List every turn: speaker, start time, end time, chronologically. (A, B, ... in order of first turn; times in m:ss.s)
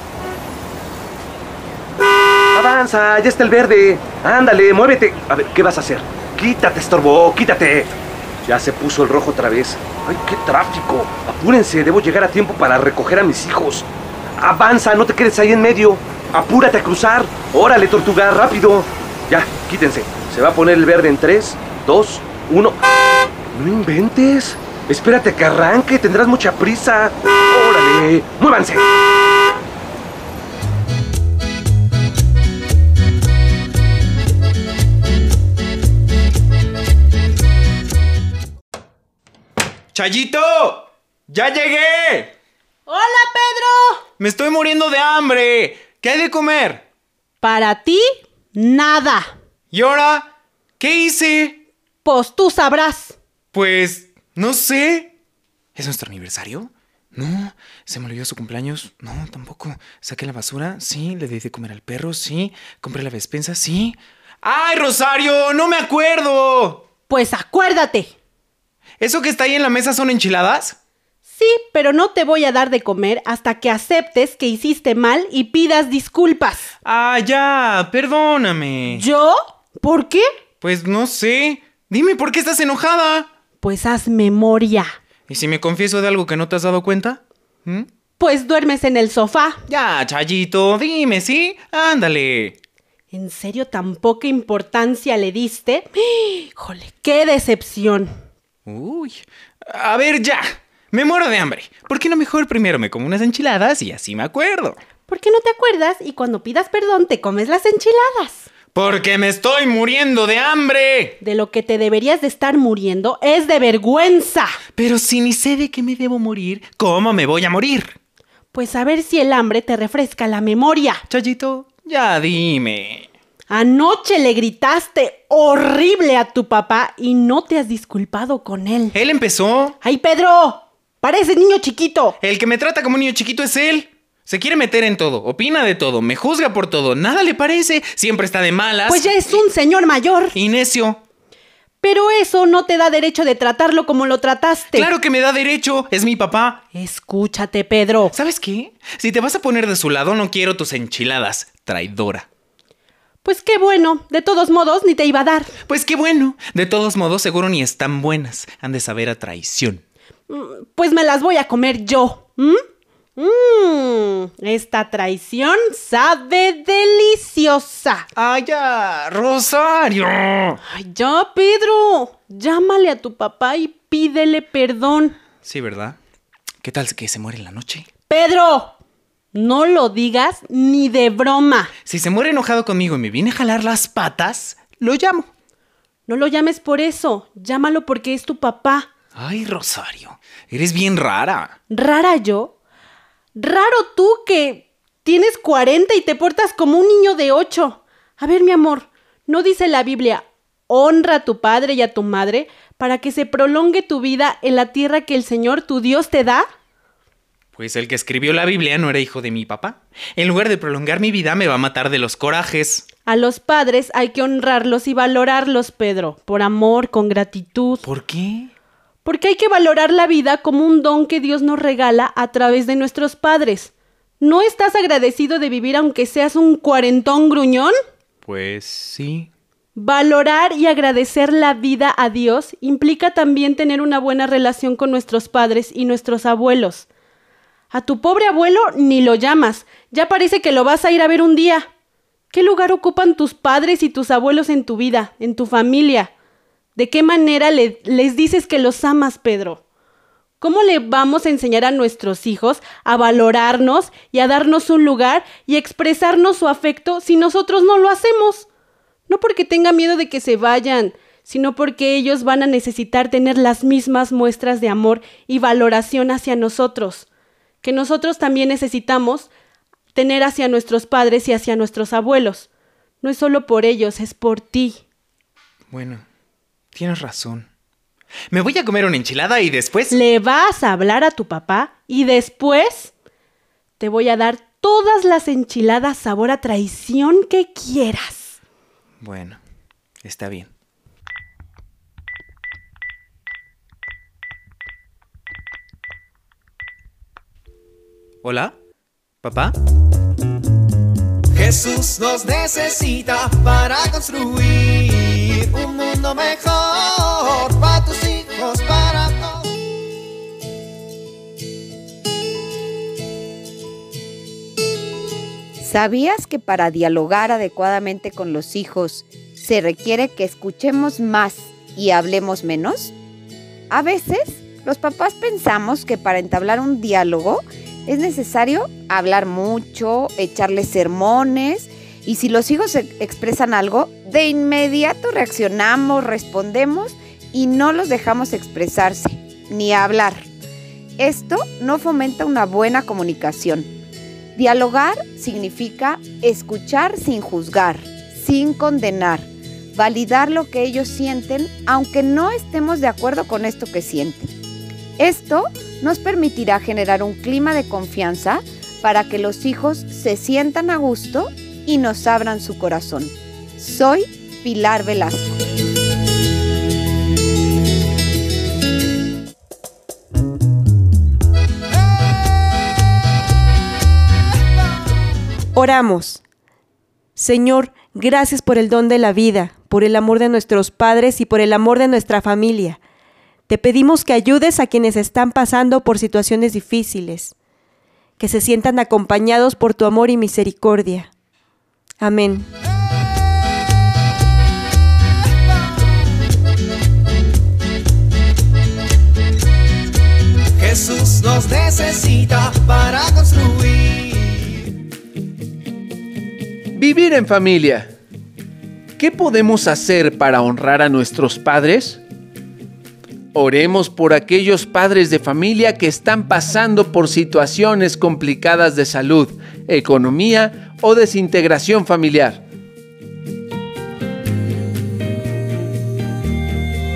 0:02.6-0:07.9 A
0:08.4-0:13.9 A
0:14.4-0:22.8 A
0:23.5-0:28.8 A
0:39.9-0:42.3 B
0:42.9-0:44.0 C
0:44.2-0:46.8 B
0:47.4-0:49.3 C
0:49.7-0:50.2 B
0:50.8-0:51.6 B
0:52.0-0:53.2 C
0:53.5-0:55.1 B
0:55.8-1:06.9 B
1:07.1-1:08.1 C
1:09.0-1:10.8 B
1:11.3-1:16.7 C
1:16.8-1:19.1 B
1:18.9-1:20.2 C
1:20.6-1:23.3 B
1:23.6-1:24.9 C
1:25.3-1:27.9 B
1:28.2-1:29.6 C
1:29.7-1:32.6 B
1:33.1-1:38.1 C
1:38.7-1:44.8 B
1:45.1-1:48.5 C
1:48.7-1:51.2 B
1:51.2-1:54.6 C
1:54.8-1:58.0 B
1:58.5-2:01.0 C
2:01.1-2:03.1 B
2:03.5-2:09.0 C
2:08.9-2:09.8 B
2:09.8-2:12.2 C
2:12.2-2:19.4 B
2:18.9-2:20.4 C
2:20.3-2:21.0 B
2:21.8-2:24.9 C
2:24.7-2:26.6 B
2:26.7-2:28.1 C
2:28.1-2:32.2 B
2:33.2-2:35.5 C
2:35.7-2:39.8 B
2:40.3-2:42.6 C
2:43.2-2:48.1 C
2:48.2-2:50.6 B
2:50.7-2:55.2 C
2:55.4-2:56.0 B
2:56.6-2:57.9 B
2:58.1-2:58.7 C
2:59.3-3:01.7 C
3:01.8-3:05.3 B
3:06.1-3:08.9 C
3:09.2-3:11.5 B
3:11.7-3:12.5 C
3:13.4-3:26.5 C
3:27.5-3:32.8 B
3:33.1-3:37.8 C
3:37.8-3:38.5 B
3:39.0-3:47.7 C
3:48.2-3:49.3 B
3:49.8-3:56.8 C
3:57.7-4:01.7 C
4:02.3-4:06.1 C
4:06.8-4:09.6 C
4:10.4-4:18.5 C
4:19.1-4:27.0 C
4:27.6-4:29.3 C
4:29.9-4:32.5 C
4:33.0-4:34.8 C
4:35.7-4:36.0 B
4:36.7-4:37.5 B
4:38.3-4:40.0 B
4:39.9-4:42.9 C
4:43.8-4:48.4 C
4:49.0-4:49.4 B
4:50.0-4:50.5 B
4:58.2-4:58.5 B
4:59.2-4:59.5 B
5:01.3-5:09.4 D
5:15.6-5:23.0 E
5:23.7-5:40.2 E
5:41.0-5:43.7 E
5:44.4-5:54.3 E
5:55.0-6:05.4 E
6:15.5-6:16.2 F
6:17.2-6:22.8 F
6:23.5-6:27.3 F
6:28.2-6:31.1 F
6:32.0-6:32.5 F
6:40.6-6:44.6 D
6:46.7-6:47.9 G
6:49.0-6:52.0 G
6:53.3-7:02.4 G